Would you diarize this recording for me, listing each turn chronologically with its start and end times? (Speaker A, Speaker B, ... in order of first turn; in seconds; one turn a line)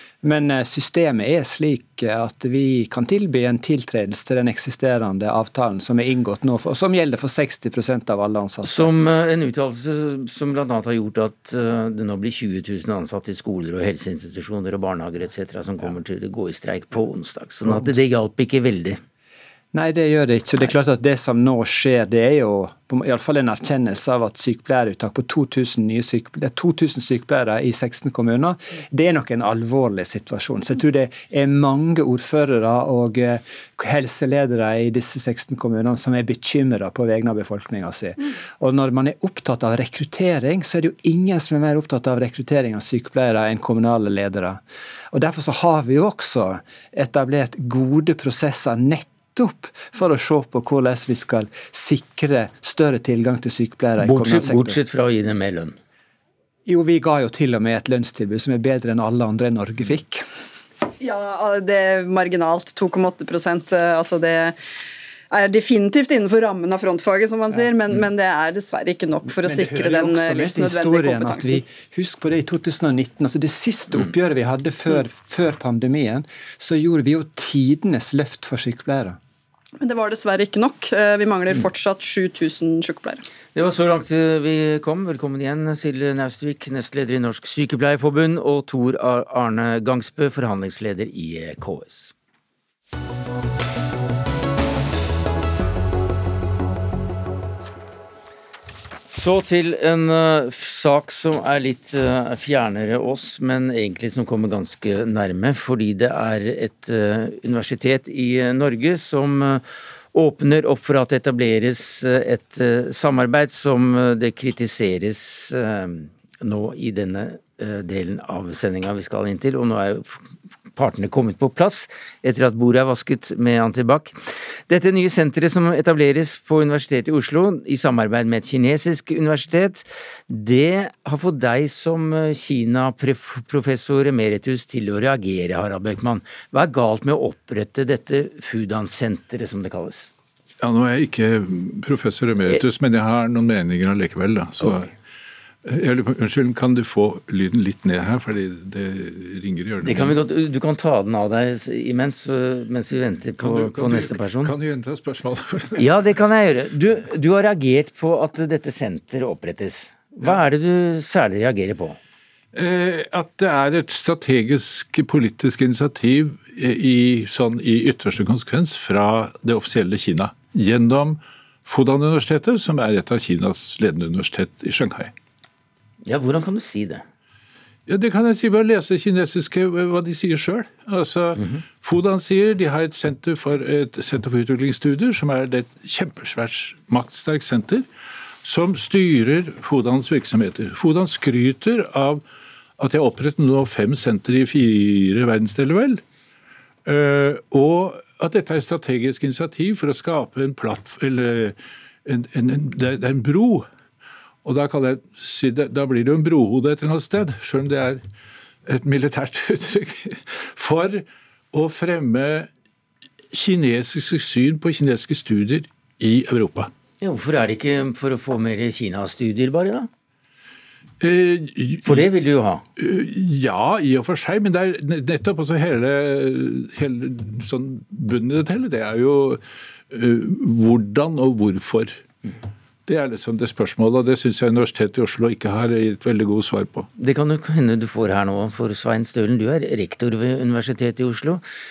Speaker A: 0.2-8.9
Speaker B: 8.6-19.0
Speaker A: 19.7-44.6
Speaker A: 45.1-54.8
Speaker B: 54.0-55.8
Speaker A: 56.6-60.2
Speaker C: 61.0-64.5
Speaker C: 65.3-71.6
Speaker A: 69.4-79.2
Speaker C: 79.8-83.2
Speaker B: 83.5-92.1
Speaker B: 99.1-120.2
Speaker B: 120.7-140.1
Speaker D: 140.6-144.9
Speaker D: 145.6-150.2
Speaker B: 149.8-154.5
Speaker D: 153.4-155.8
Speaker B: 155.8-162.0
Speaker D: 162.5-175.1
Speaker B: 176.0-177.0
Speaker D: 177.9-187.9
Speaker D: 188.4-192.2
Speaker D: 192.8-196.0
Speaker D: 196.8-203.7
Speaker D: 204.4-208.0
Speaker D: 208.7-212.5
Speaker D: 213.3-216.7
Speaker B: 217.0-219.9
Speaker D: 221.0-222.1
Speaker B: 221.8-222.6
Speaker D: 222.8-232.0
Speaker D: 232.9-236.9
Speaker B: 237.0-241.4